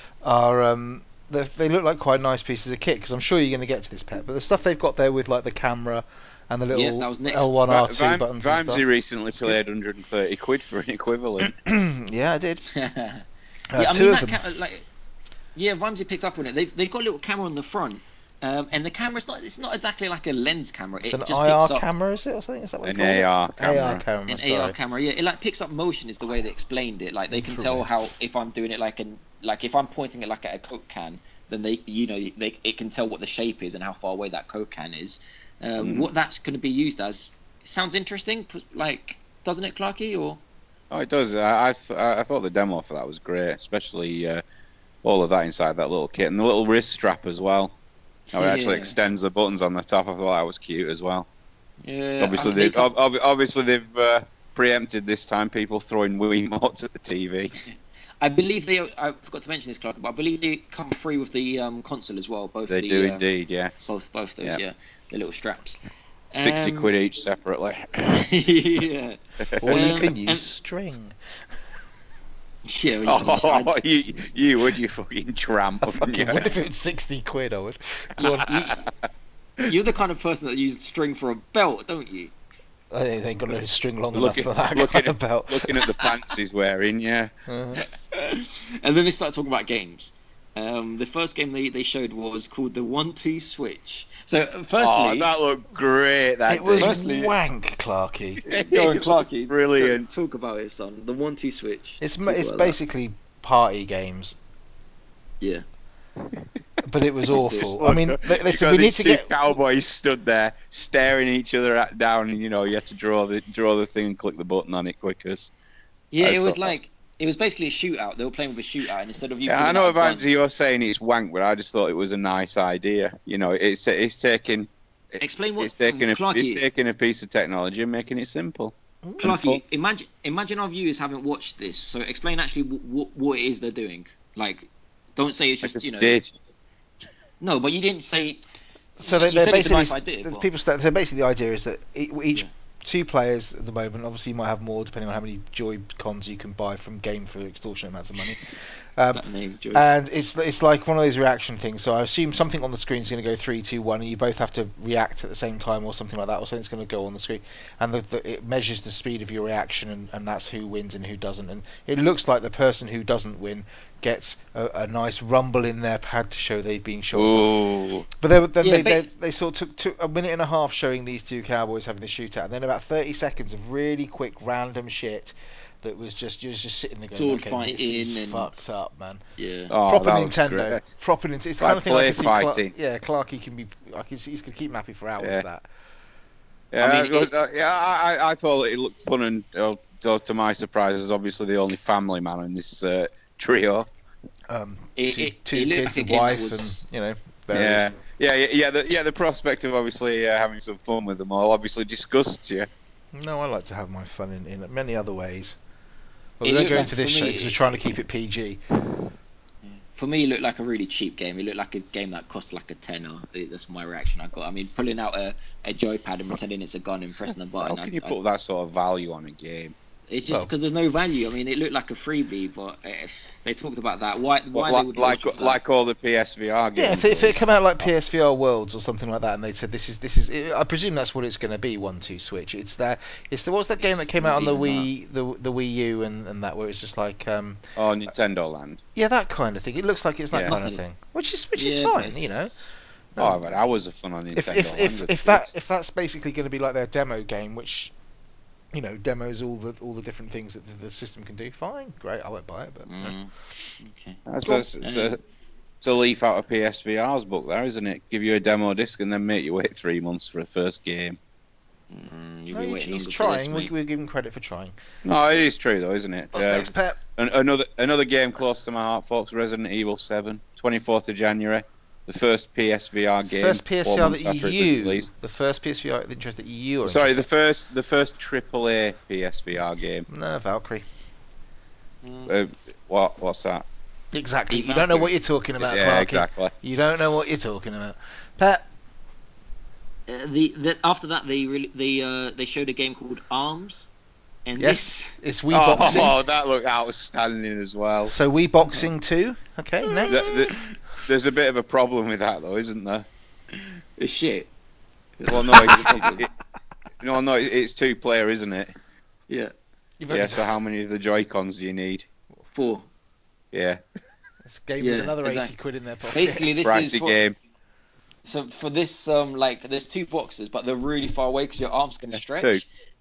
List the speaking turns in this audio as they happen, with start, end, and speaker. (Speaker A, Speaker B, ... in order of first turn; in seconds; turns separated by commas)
Speaker A: 0.2-8.8, Speaker B: 6.7-7.6, Speaker C: 7.7-11.5, Speaker A: 11.4-12.6, Speaker B: 12.7-13.2, Speaker A: 13.7-14.4, Speaker B: 13.8-14.9, Speaker B: 15.6-21.9, Speaker A: 21.0-24.7, Speaker C: 22.8-24.0, Speaker B: 24.3-40.4, Speaker A: 27.3-27.9, Speaker C: 35.8-36.1, Speaker C: 40.9-44.4, Speaker C: 45.0-47.7, Speaker B: 48.3-49.0, Speaker C: 48.3-51.3, Speaker B: 51.8-52.9, Speaker C: 52.2-57.5, Speaker B: 57.7-63.2, Speaker C: 62.7-63.9, Speaker B: 63.9-65.8, Speaker B: 66.3-66.9, Speaker C: 66.4-68.2, Speaker B: 68.1-70.5, Speaker C: 69.5-69.8, Speaker A: 69.6-71.2, Speaker B: 72.6-73.7, Speaker C: 73.1-76.5, Speaker A: 75.8-78.5, Speaker B: 78.2-78.8, Speaker B: 79.7-82.3, Speaker A: 82.9-85.8, Speaker C: 84.1-87.3, Speaker B: 86.0-86.3, Speaker A: 87.5-87.8, Speaker B: 87.8-95.3, Speaker C: 94.8-96.9, Speaker A: 96.5-98.4, Speaker B: 96.8-97.3, Speaker C: 98.4-100.1, Speaker B: 98.5-102.8, Speaker A: 102.0-104.4, Speaker A: 106.8-109.3, Speaker B: 107.3-107.7, Speaker C: 107.3-115.5, Speaker B: 116.1-120.3, Speaker C: 116.2-116.7, Speaker C: 119.5-129.6, Speaker B: 125.2-126.6, Speaker A: 129.1-129.3, Speaker B: 129.2-136.2, Speaker C: 135.6-136.3, Speaker B: 137.4-138.4, Speaker A: 139.0-167.5, Speaker B: 139.0-140.4, Speaker B: 149.1-149.9, Speaker C: 167.1-168.1, Speaker A: 168.2-179.2, Speaker B: 168.6-169.0, Speaker B: 177.2-178.7, Speaker B: 179.4-179.7, Speaker C: 179.7-180.9, Speaker A: 179.9-185.7, Speaker C: 181.6-182.7, Speaker C: 185.2-185.4, Speaker C: 186.7-193.9, Speaker B: 186.8-187.3, Speaker A: 194.5-197.9, Speaker B: 194.9-196.8, Speaker C: 197.5-202.7, Speaker A: 203.1-205.6, Speaker A: 206.4-208.6, Speaker B: 206.4-207.6, Speaker B: 209.9-218.2, Speaker C: 217.6-219.7, Speaker B: 220.1-225.6, Speaker C: 224.5-227.9, Speaker A: 226.7-237.6, Speaker B: 233.8-234.9, Speaker C: 237.8-238.8, Speaker A: 238.9-242.5, Speaker B: 240.4-240.8, Speaker B: 241.6-242.7, Speaker A: 243.2-243.5, Speaker C: 243.2-245.5, Speaker A: 244.3-247.9, Speaker A: 248.7-253.1, Speaker B: 252.9-254.2, Speaker C: 254.3-255.2, Speaker B: 254.8-255.2, Speaker C: 255.8-261.2, Speaker B: 261.9-263.7, Speaker A: 262.5-264.7, Speaker C: 265.0-275.1, Speaker A: 266.3-267.0, Speaker A: 273.2-277.2, Speaker C: 276.8-280.1, Speaker A: 280.1-280.8, Speaker B: 282.0-282.3, Speaker C: 282.3-283.6, Speaker A: 284.1-288.7, Speaker B: 284.5-285.1, Speaker C: 285.6-286.5, Speaker B: 290.1-293.9, Speaker B: 294.4-295.1, Speaker A: 294.6-296.2, Speaker C: 295.5-298.1, Speaker A: 298.1-300.4, Speaker B: 299.9-300.6, Speaker C: 300.1-303.1, Speaker B: 303.5-304.5, Speaker B: 305.2-306.2, Speaker C: 305.3-306.3, Speaker C: 307.0-308.7, Speaker B: 309.3-309.5, Speaker A: 310.0-310.4, Speaker C: 310.1-312.1, Speaker B: 312.5-312.9, Speaker C: 313.5-313.8, Speaker A: 314.4-316.5, Speaker B: 314.8-315.5, Speaker B: 316.0-317.2, Speaker C: 316.6-317.4, Speaker B: 318.2-322.6, Speaker C: 322.1-322.6